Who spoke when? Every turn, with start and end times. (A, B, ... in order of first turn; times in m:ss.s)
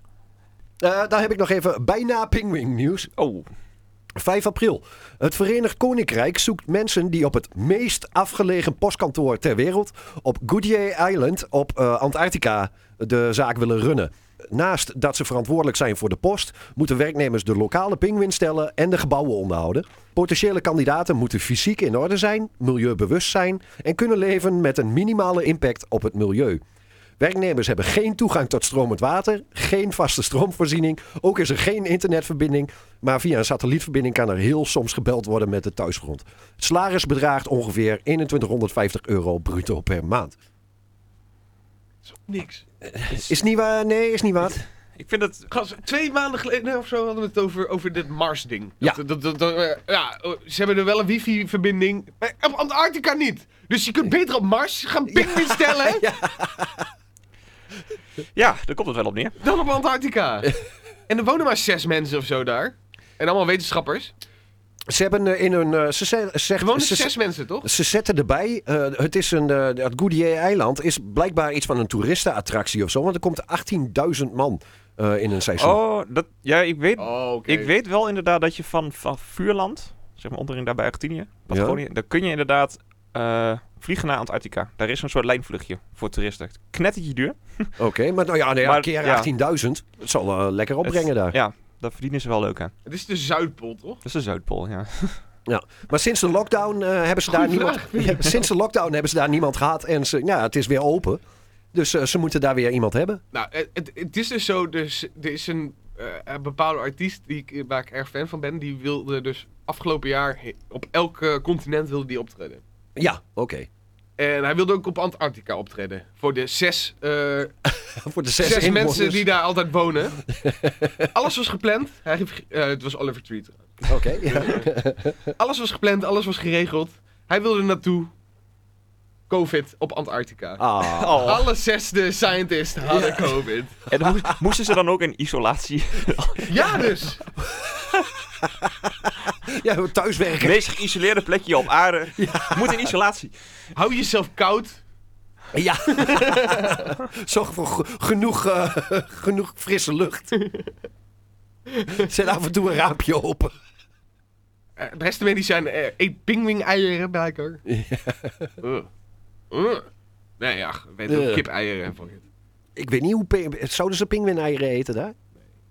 0:00.8-0:03.1 A
0:03.2-0:03.5 B
0:04.2-0:26.6 A
0:27.2-0:40.4 A
0:42.0-0:42.6 C
0:42.8-0:44.6 A
0:45.0-0:45.5 B
0:45.5-0:56.0 C
0:55.1-0:56.9 A
0:58.4-0:59.4 B
0:59.4-1:00.5 C
1:01.1-1:04.1 C
1:04.9-1:15.8 A
1:06.6-1:07.7 C
1:15.6-1:27.7 B
1:17.0-1:17.7 C
1:21.5-1:21.8 A
1:27.8-1:31.4 A
1:28.6-1:29.3 B
1:30.8-1:32.7 B
1:32.9-1:34.0 C
1:34.0-1:35.2 B
1:35.5-1:41.2 A
1:37.3-1:38.5 C
1:41.7-1:43.2 A
1:43.3-1:52.6 C
1:53.0-1:53.7 A
1:54.2-1:57.5 C
1:57.7-1:59.3 A
1:58.4-2:00.2 C
2:00.3-2:01.1 A
2:01.1-2:04.7 C
2:03.9-2:05.3 A
2:05.4-2:08.1 C
2:09.3-2:10.6 C
2:10.6-2:11.4 A
2:10.8-2:11.5 B
2:11.2-2:13.8 C
2:12.9-2:13.4 A
2:13.9-2:16.6 B
2:14.0-2:14.4 A
2:16.5-2:17.2 C
2:17.4-2:20.7 A
2:20.4-2:23.3 B
2:22.2-2:22.9 A
2:23.8-2:24.8 C
2:25.5-2:30.3 A
2:25.9-2:26.9 C
2:31.9-2:33.5 A
2:34.8-2:37.6 C
2:37.7-2:38.5 A
2:38.6-2:38.9 C
2:39.5-2:39.9 C
2:40.4-2:42.2 C
2:41.1-2:41.4 A
2:42.8-2:45.2 A